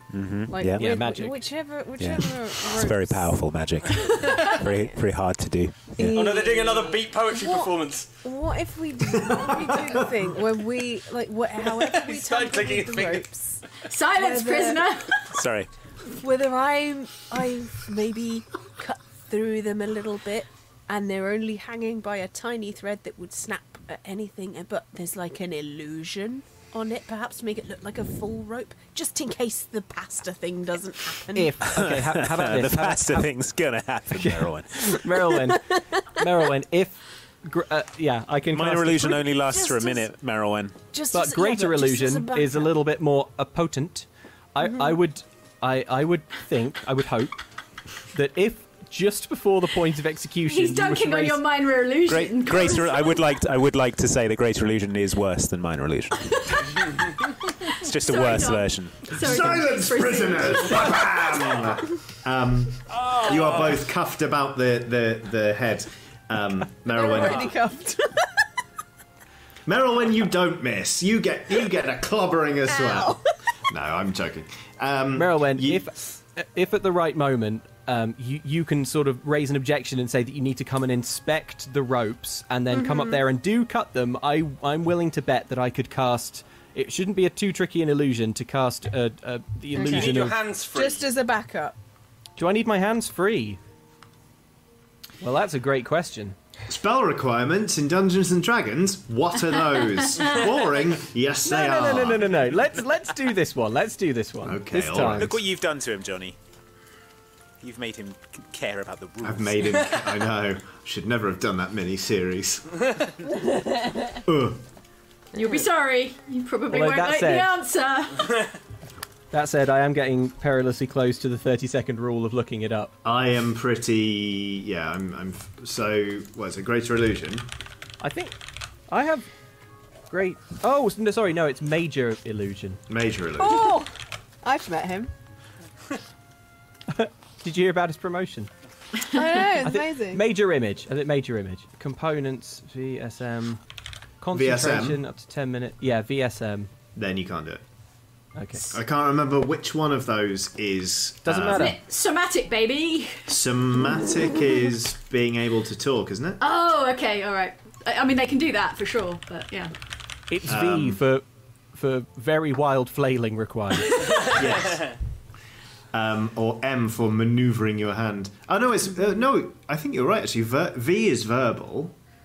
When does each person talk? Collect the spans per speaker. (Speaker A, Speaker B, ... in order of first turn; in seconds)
Speaker A: 0.1-0.9, 2.0-6.1, 15.3-15.7, 31.7-35.0, 38.5-40.8, 52.1-56.4, 57.6-59.4, 105.1-106.4, 107.6-109.9
Speaker B: 0.5-3.3, 6.0-7.7, 8.2-13.6, 14.2-14.8, 16.2-31.8, 35.3-35.7, 39.5-39.9, 40.9-42.8, 44.7-45.0, 67.0-68.0, 72.7-73.2, 82.7-83.3, 89.7-90.2, 90.7-91.8, 133.4-133.8, 134.4-135.1, 139.2-140.3
Speaker C: 0.5-3.2, 6.0-7.5, 8.9-13.2, 14.2-14.8, 16.2-20.4, 20.9-21.4, 22.0-23.4, 27.4-27.9, 29.0-29.4, 30.1-33.3, 34.1-39.9, 41.0-47.4, 48.1-51.4, 66.9-68.0, 75.2-91.2, 92.4-93.6, 95.2-96.4, 101.5-105.4, 116.7-117.5, 119.3-122.9, 128.0-128.3, 128.9-129.3, 130.1-132.8, 133.4-133.9, 136.9-138.5, 139.2-143.6, 144.2-146.7, 148.4-148.7, 151.2-151.8, 160.3-164.0
Speaker D: 4.0-4.6, 13.8-15.2, 50.4-53.1, 58.0-61.0, 115.3-118.4, 151.5-153.2, 156.4-159.7
Speaker E: 4.3-4.5, 6.1-8.1, 11.8-13.8, 62.9-63.8, 89.8-91.1, 164.1-164.9
Speaker F: 9.1-10.1, 59.1-67.6, 69.7-75.9, 96.7-102.4, 104.4-105.4, 109.2-113.1, 114.2-114.6, 123.0-127.5, 132.9-133.7, 144.3-145.0, 147.0-147.6, 148.7-151.7, 153.3-156.4, 160.5-161.0, 164.3-165.0, 165.9-171.9